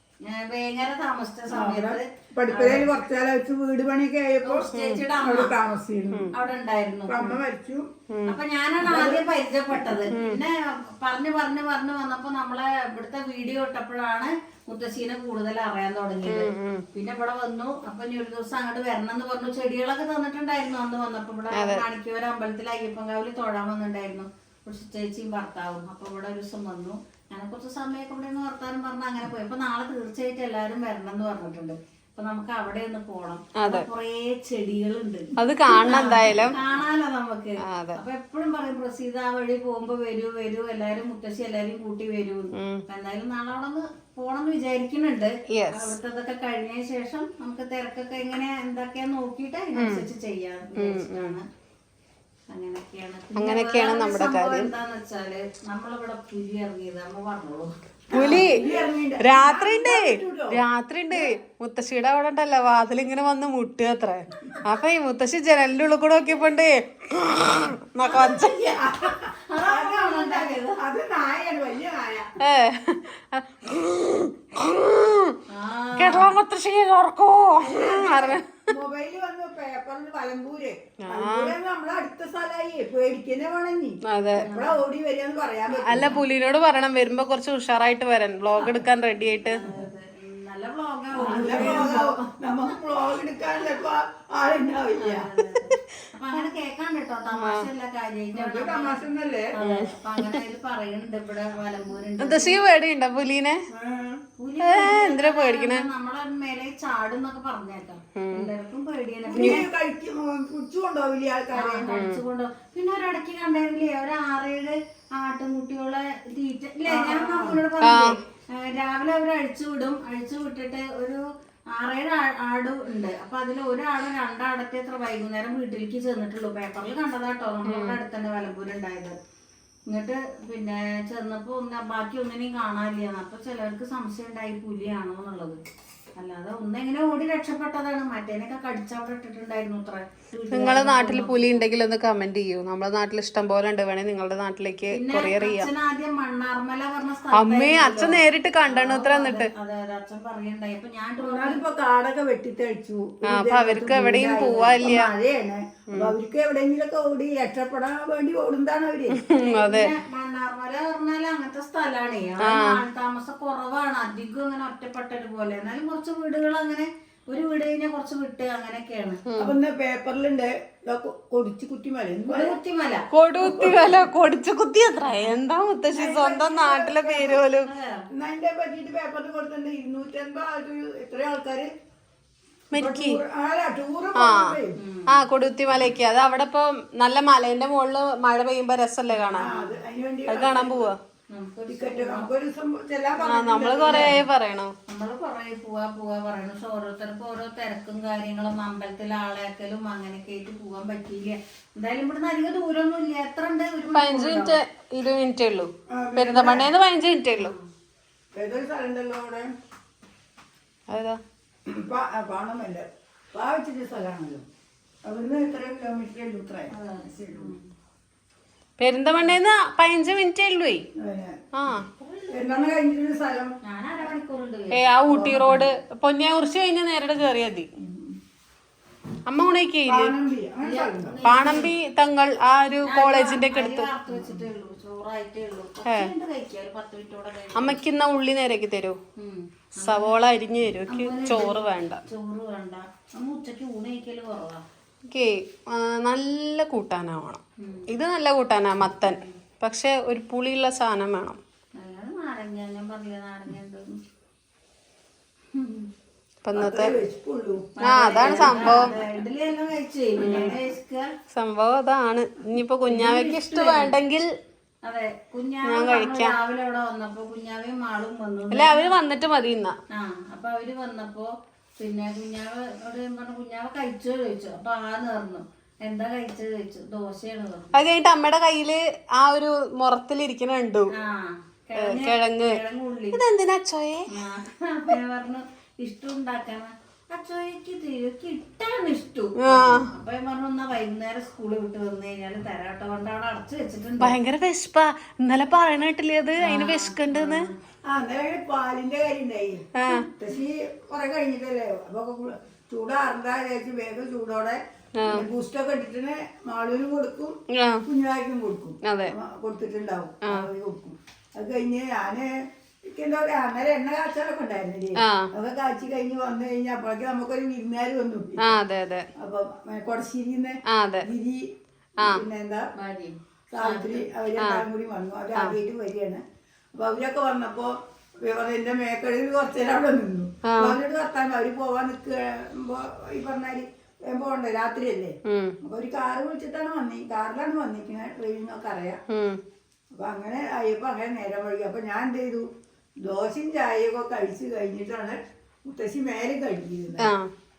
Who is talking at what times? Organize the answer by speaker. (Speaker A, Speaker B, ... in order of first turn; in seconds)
Speaker A: 0.3-2.9, 4.4-5.5, 6.3-7.4, 8.2-51.4, 52.5-58.8, 69.5-70.8, 75.5-76.4, 84.4-84.8, 86.0-86.2, 88.6-92.3, 95.0-102.6, 104.4-109.7, 111.5-129.1, 129.9-135.6, 136.2-141.6, 144.9-151.6, 159.3-169.2, 172.3-173.1, 177.6-178.1, 184.8-185.2, 189.4-189.7, 191.3-192.3, 193.8-194.2, 194.9-204.6, 207.4-207.7, 216.7-217.6, 221.9-222.4, 223.6-224.9, 230.6-231.7, 232.8-237.8, 239.2-240.2, 240.9-244.6, 247.6-247.9, 249.0-249.3, 251.8-254.0, 255.5-255.9, 257.8-261.1, 262.9-264.0, 264.8-269.0, 269.9-277.8, 280.9-283.2, 284.1-294.2, 296.4-297.5, 299.9-300.1, 322.8-324.0
Speaker B: 1.5-4.7, 5.2-6.3, 7.1-7.8, 8.8-9.9, 58.1-61.3, 68.0-72.3, 77.6-86.2, 91.2-95.3, 98.3-99.5, 103.7-104.2, 109.3-111.9, 116.9-117.6, 151.2-159.2, 169.4-172.6, 173.4-174.1, 175.9-177.5, 178.1-181.7, 182.7-184.7, 189.3-190.9, 191.7-194.2, 205.9-206.7, 208.3-209.5, 211.7-214.4, 215.0-217.5, 221.0-221.4, 222.3-223.5, 225.1-225.7, 227.8-228.2, 229.9-231.2, 256.6-258.9, 297.9-312.3, 312.9-318.5, 319.2-321.5, 322.0-322.7, 323.5-326.2, 326.7-339.0, 339.9-342.4, 343.0-347.1
Speaker C: 4.7-5.0, 8.1-8.4, 10.1-10.4, 16.2-16.8, 21.6-21.8, 33.6-33.9, 35.4-36.6, 37.7-38.0, 42.5-42.8, 45.5-45.9, 49.8-50.0, 50.8-51.4, 53.4-54.7, 58.1-58.6, 59.2-68.5, 72.4-75.4, 76.0-78.7, 81.1-81.5, 84.1-84.5, 85.7-89.6, 91.3-92.0, 97.3-97.6, 99.6-100.4, 102.2-103.6, 104.7-105.8, 108.2-108.5, 109.4-109.6, 111.9-112.2, 117.8-118.2, 127.7-128.0, 140.5-145.7, 147.3-149.5, 153.3-155.1, 159.1-159.9, 162.4-162.8, 169.3-169.5, 173.1-177.7, 182.7-183.2, 184.2-184.6, 185.1-189.6, 190.3-191.0, 193.2-194.7, 203.9-207.5, 210.9-211.2, 218.8-220.8, 221.5-221.9, 224.7-227.7, 229.3-230.1, 231.2-233.9, 237.6-238.9, 239.8-242.0, 245.1-251.4, 256.4-256.9, 257.8-258.9, 260.2-260.6, 261.3-264.2, 265.7-266.3, 268.5-269.7, 277.7-280.9, 281.8-282.6, 283.1-284.1, 289.4-289.9, 294.0-297.5, 299.8-300.1, 305.0-305.3, 307.5-307.8, 308.8-309.1, 315.0-315.3, 318.4-319.1, 320.7-321.1, 324.4-324.6, 330.5-330.8, 335.2-335.5, 339.1-339.4, 347.0-347.3